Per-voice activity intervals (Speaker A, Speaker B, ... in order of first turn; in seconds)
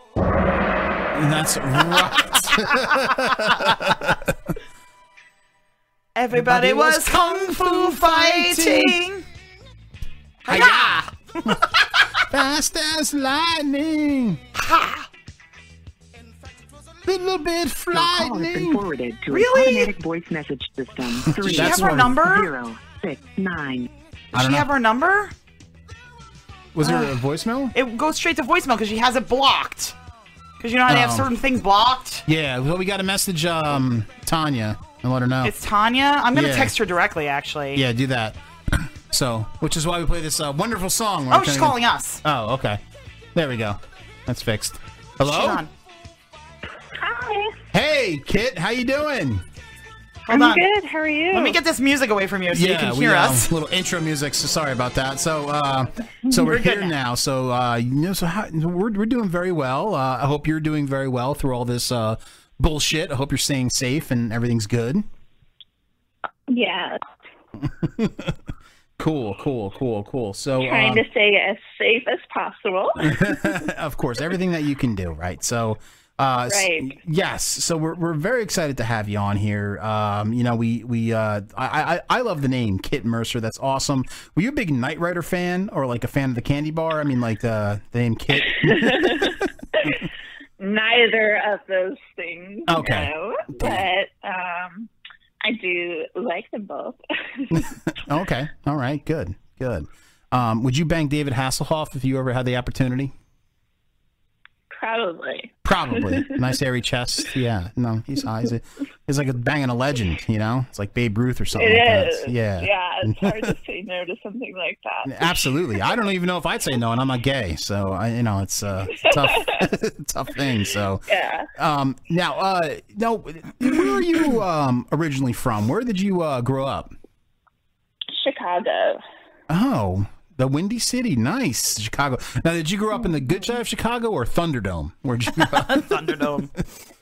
Speaker A: 1.1-4.3, 6.3-8.9, 10.5-11.6, 12.3-14.4, 17.1-18.8, 21.2-22.2, 24.3-24.7, 26.7-27.7, 30.9-31.3, 32.2-35.5, 36.3-36.7, 37.7-42.8, 43.3-45.6, 47.7-49.4, 52.5-65.0, 67.6-68.4, 69.0-71.0, 73.0-89.9, 92.7-93.9, 97.5-103.1, 105.6-113.5, 115.0-121.0, 121.5-126.9, 129.5-135.9
Speaker B: 3.5-3.7, 6.2-9.2, 10.4-11.5, 14.6-15.0, 19.3-19.9, 21.4-22.5, 24.3-25.3, 26.8-27.1, 27.7-29.9, 30.6-32.2, 35.4-37.8, 41.3-42.2, 45.2-45.7, 50.3-50.6, 51.3-53.5, 56.3-56.9, 135.4-136.5
Speaker C: 17.9-23.9
Speaker D: 47.0-47.6, 50.3-51.6, 66.5-67.0, 70.6-73.5, 76.5-77.0, 88.6-90.0, 90.6-94.9, 95.4-97.7, 104.7-106.3, 111.5-115.9, 119.0-119.5, 121.1-121.5, 128.1-129.0, 132.9-133.6